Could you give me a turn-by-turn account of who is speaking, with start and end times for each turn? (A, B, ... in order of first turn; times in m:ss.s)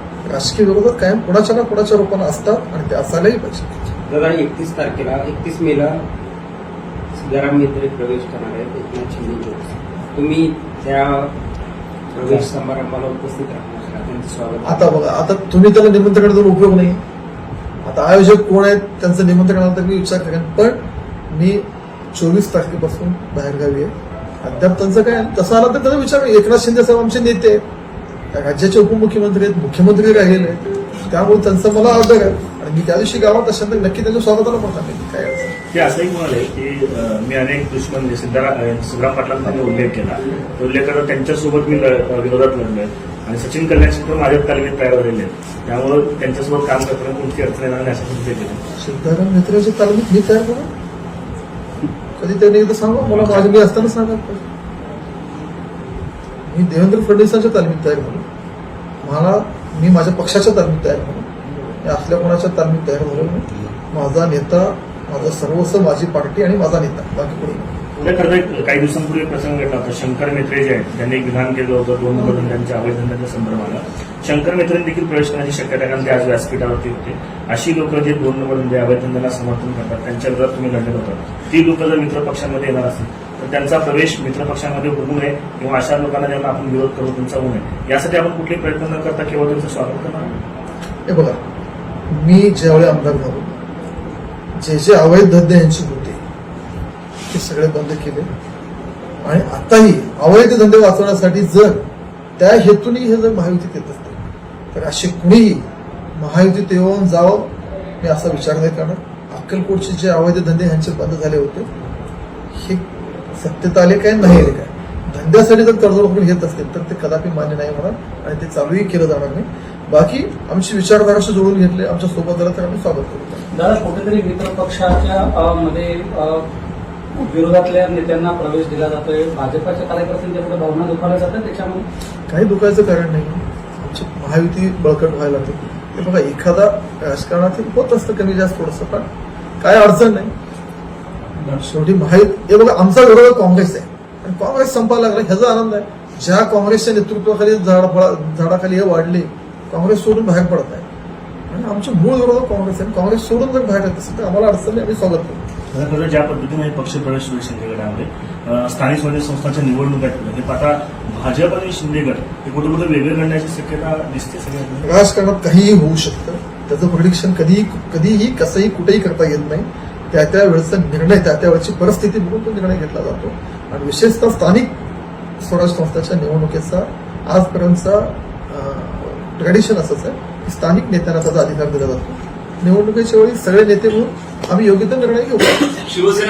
0:00.3-0:03.9 A
0:04.1-0:06.0 B
0:07.2-0:11.3 B
0:12.1-0:15.0 B
0:14.6-0:17.0 A
0:17.8-0:20.8 A
0:21.3-0:27.6 A
0:28.3-0:35.6 A
0:35.7-0:48.6 C
0:48.8-0:50.7 A
0:52.2-0:54.4 A
0:53.1-0:53.4 C
0:56.5-0:58.2 A
0:59.0-1:01.3 A
1:01.8-1:07.8 A
1:08.0-1:30.3 C
1:31.1-1:31.4 A
1:32.1-1:33.5 A
1:34.6-1:36.2 A
1:37.3-1:38.3 A
1:39.2-1:41.8 A
1:42.4-1:44.2 A
1:44.7-1:45.7 A
1:46.2-1:51.7 A
1:52.6-2:03.5 A
2:03.6-2:06.4 D
2:07.2-2:11.8 D
2:12.3-2:19.1 A
2:19.6-2:20.3 A
2:21.4-2:21.7 C
2:21.6-2:30.9 A
2:31.5-2:35.4 A
2:35.7-2:45.0 C
2:44.8-2:54.8 A
2:55.4-3:05.8 A